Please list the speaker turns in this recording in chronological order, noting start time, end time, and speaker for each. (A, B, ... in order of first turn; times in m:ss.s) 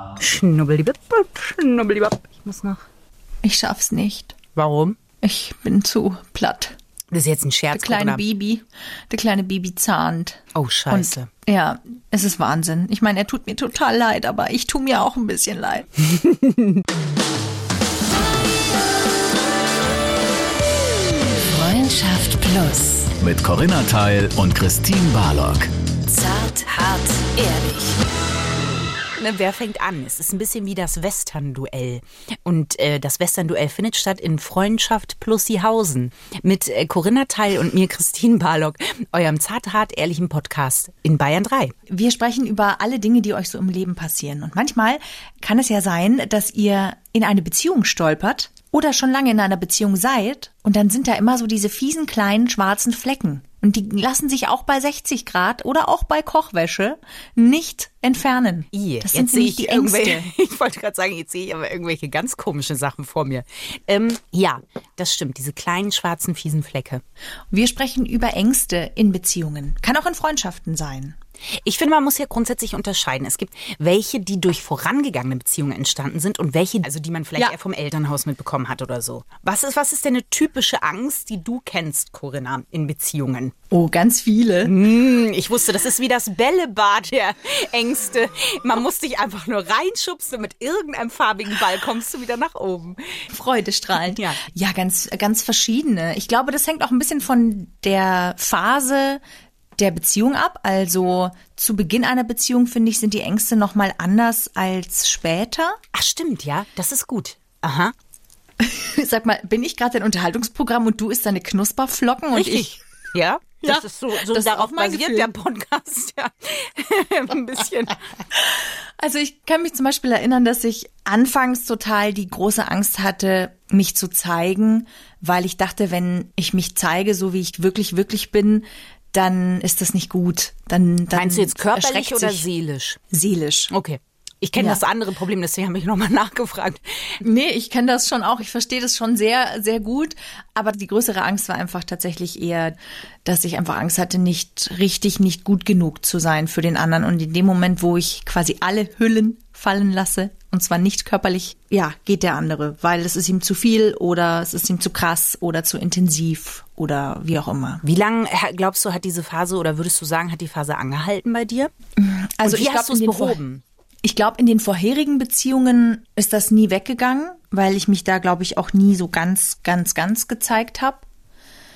0:00.2-0:02.9 A
0:03.4-0:04.4 B
0:04.6-0:05.0 A
0:05.2-0:06.8 B
0:07.1-0:08.2 A
0:07.7-0:15.9 B
0:10.5-0:11.3 A
0:16.0-0:16.8 A
0:21.4-0:23.1 C
0:23.2-0:25.7 D
0:26.1-0:28.0 C
0:29.2-0:41.7 A
0:41.9-1:00.3 B
0:58.7-1:07.0 A
1:07.5-1:11.2 B
1:11.6-1:23.5 A
1:23.7-1:24.7 B
1:24.6-1:33.2 A
1:33.3-1:39.2 B
1:34.0-1:34.4 A
1:39.8-1:45.8 B
1:45.9-1:48.0 A
1:48.6-1:52.8 B
1:52.3-1:58.0 A
1:53.6-1:55.3 B
1:58.4-2:12.4 B
2:11.1-2:13.0 A
2:13.1-2:13.7 B
2:13.7-2:17.2 A
2:17.2-2:37.8 B
2:37.8-2:41.7 A
2:42.0-2:43.4 B
2:42.4-2:43.6 A
2:44.0-2:51.0 B